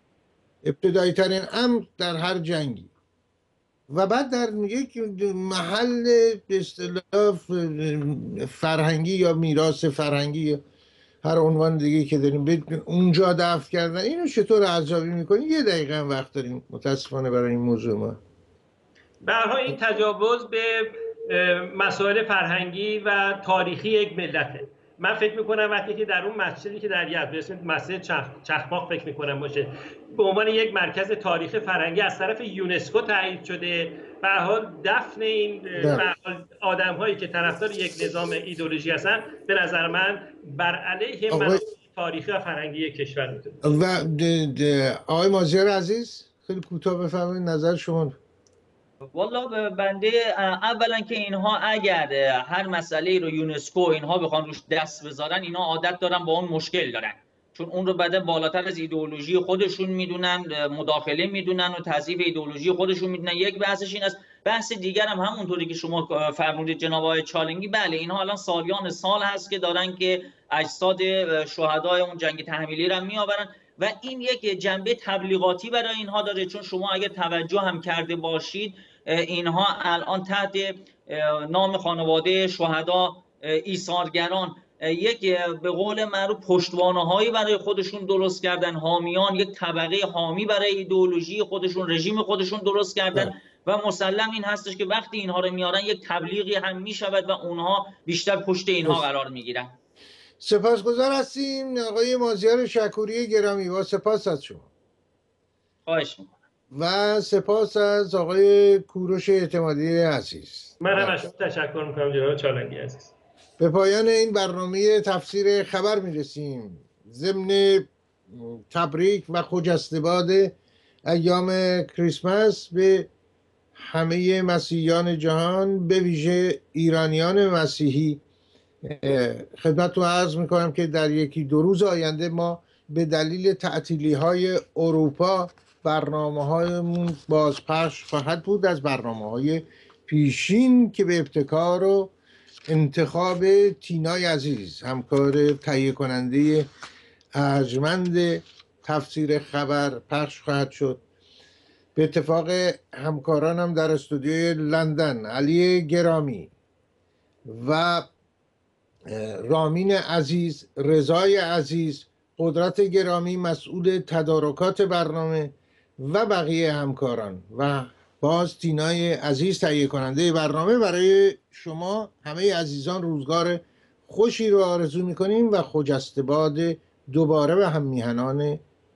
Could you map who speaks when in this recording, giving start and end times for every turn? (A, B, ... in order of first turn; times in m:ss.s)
0:00.6-0:02.9 A
0:03.9-0:10.6 A
0:11.2-0:18.2 A
0:19.2-0:43.8 B
0:35.8-0:36.1 A
0:41.3-0:41.6 A
0:43.6-0:48.2 A
0:49.1-1:39.8 C
1:40.4-1:44.7 A
1:45.9-1:46.3 C
1:46.8-1:51.2 A
1:50.8-1:53.1 B
1:53.6-2:00.6 A
2:01.1-2:03.1 A
2:03.8-2:08.2 A
2:08.8-2:22.1 A
2:22.7-2:26.7 A
2:27.4-2:31.0 A
2:32.0-2:36.5 A
2:37.5-2:38.1 A
2:39.1-2:58.6 A